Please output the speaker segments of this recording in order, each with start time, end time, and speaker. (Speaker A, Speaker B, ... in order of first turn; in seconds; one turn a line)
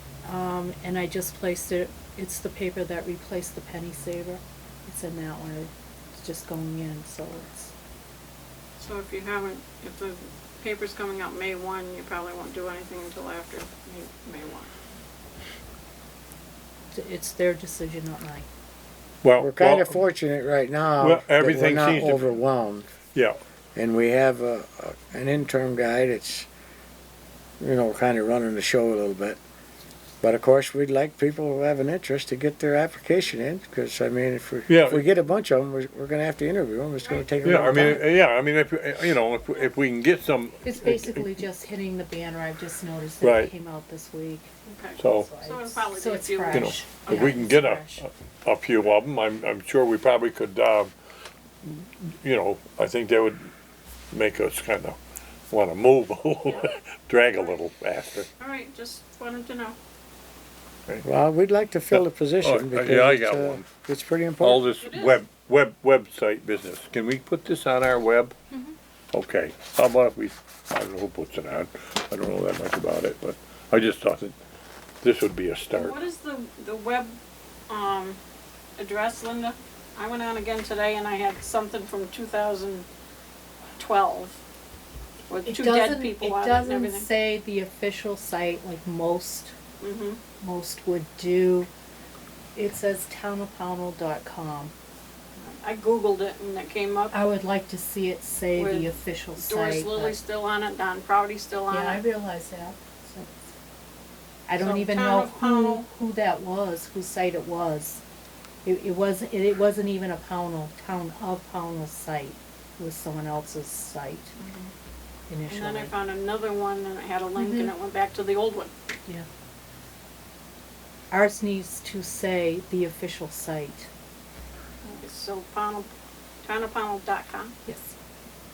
Speaker A: 0.2-7.7
Speaker B: 8.8-14.7
Speaker A: 16.9-18.5
Speaker C: 19.2-20.0
Speaker D: 19.4-22.9
Speaker C: 21.0-22.4
Speaker C: 23.1-23.4
Speaker D: 23.7-26.5
Speaker D: 27.6-29.4
Speaker D: 30.2-38.0
Speaker C: 34.7-35.0
Speaker B: 37.0-37.5
Speaker C: 37.4-41.3
Speaker A: 40.6-44.5
Speaker C: 43.2-43.5
Speaker B: 44.6-47.5
Speaker C: 45.0-45.3
Speaker A: 45.0-48.0
Speaker C: 46.5-50.9
Speaker C: 51.6-53.5
Speaker C: 54.1-55.0
Speaker C: 55.5-58.3
Speaker B: 58.4-59.8
Speaker D: 61.0-64.6
Speaker C: 61.9-63.6
Speaker C: 64.4-68.3
Speaker B: 64.8-65.2
Speaker C: 69.1-74.3
Speaker C: 75.0-76.0
Speaker B: 75.7-77.2
Speaker B: 77.7-78.2
Speaker B: 78.8-82.9
Speaker B: 83.8-84.4
Speaker B: 85.3-87.1
Speaker A: 85.5-89.5
Speaker B: 89.8-90.2
Speaker A: 90.4-91.7
Speaker A: 92.5-94.7
Speaker B: 95.4-97.1
Speaker A: 97.1-100.2
Speaker B: 98.5-102.0
Speaker A: 101.7-103.3
Speaker A: 104.5-108.0
Speaker B: 104.6-105.8
Speaker A: 108.6-114.3
Speaker B: 114.4-114.7
Speaker A: 115.3-115.9
Speaker B: 115.5-118.7
Speaker A: 117.3-117.7
Speaker A: 121.1-123.9
Speaker B: 124.8-125.9
Speaker B: 126.4-127.5
Speaker A: 127.7-127.9